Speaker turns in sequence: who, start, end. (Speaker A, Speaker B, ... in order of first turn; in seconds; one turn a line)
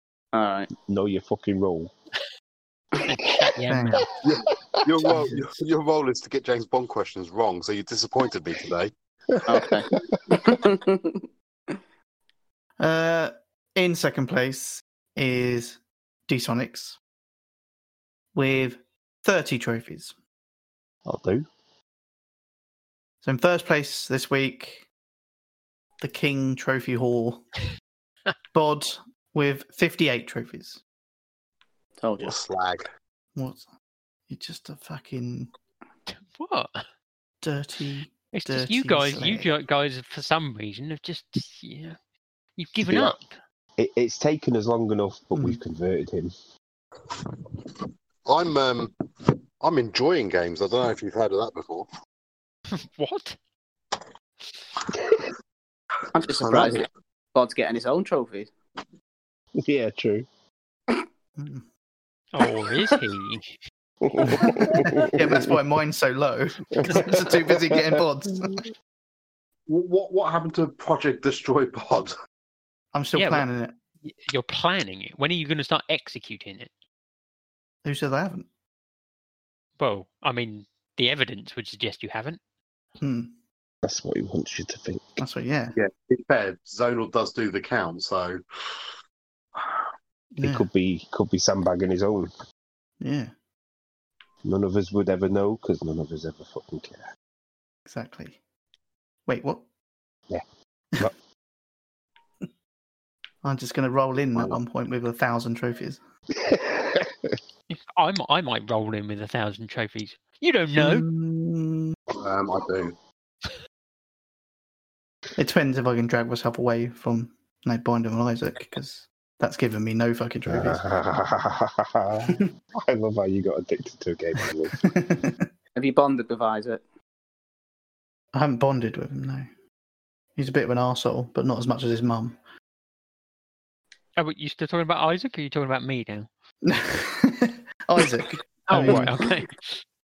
Speaker A: 0.3-0.7
Speaker B: 0.8-1.9
Speaker C: 3.0-4.1
Speaker D: 3.7-4.1
Speaker B: 4.0-5.2
Speaker E: 4.2-8.9
Speaker D: 5.1-5.4
Speaker B: 9.3-10.6
Speaker A: 9.5-11.2
Speaker D: 12.8-17.0
Speaker D: 18.3-20.1
Speaker B: 21.1-21.5
Speaker D: 23.2-24.9
Speaker D: 26.0-27.4
Speaker D: 28.5-30.8
Speaker A: 32.0-32.4
Speaker E: 32.2-32.8
Speaker D: 33.4-33.6
Speaker D: 34.3-35.5
Speaker C: 36.1-36.8
Speaker D: 37.4-39.5
Speaker C: 38.3-42.0
Speaker C: 42.6-43.4
Speaker B: 42.9-43.2
Speaker B: 43.8-46.4
Speaker D: 45.3-45.6
Speaker E: 47.2-47.7
Speaker E: 48.3-51.9
Speaker C: 52.7-53.4
Speaker B: 54.9-55.3
Speaker A: 56.1-58.5
Speaker E: 56.2-56.9
Speaker B: 59.6-60.3
Speaker D: 61.4-61.7
Speaker C: 62.3-63.6
Speaker B: 64.0-65.6
Speaker D: 64.3-68.6
Speaker B: 66.7-68.6
Speaker E: 69.7-72.1
Speaker D: 72.9-73.8
Speaker C: 73.2-73.5
Speaker C: 74.0-76.7
Speaker D: 77.8-78.5
Speaker C: 79.8-82.4
Speaker D: 83.0-83.3
Speaker B: 83.8-85.2
Speaker D: 85.2-85.8
Speaker E: 85.8-88.8
Speaker D: 90.4-90.7
Speaker B: 90.4-92.3
Speaker D: 93.0-93.3
Speaker B: 94.4-97.0
Speaker D: 97.9-98.4
Speaker D: 99.3-99.6
Speaker D: 103.4-106.0
Speaker B: 106.3-107.4
Speaker C: 107.7-111.1
Speaker D: 110.8-112.0
Speaker E: 112.2-113.0
Speaker D: 115.4-120.8
Speaker B: 120.5-124.9
Speaker D: 124.8-125.5
Speaker A: 125.8-126.8
Speaker D: 128.3-129.5
Speaker D: 130.4-132.4
Speaker C: 134.2-136.3
Speaker D: 136.6-139.2
Speaker C: 138.7-139.7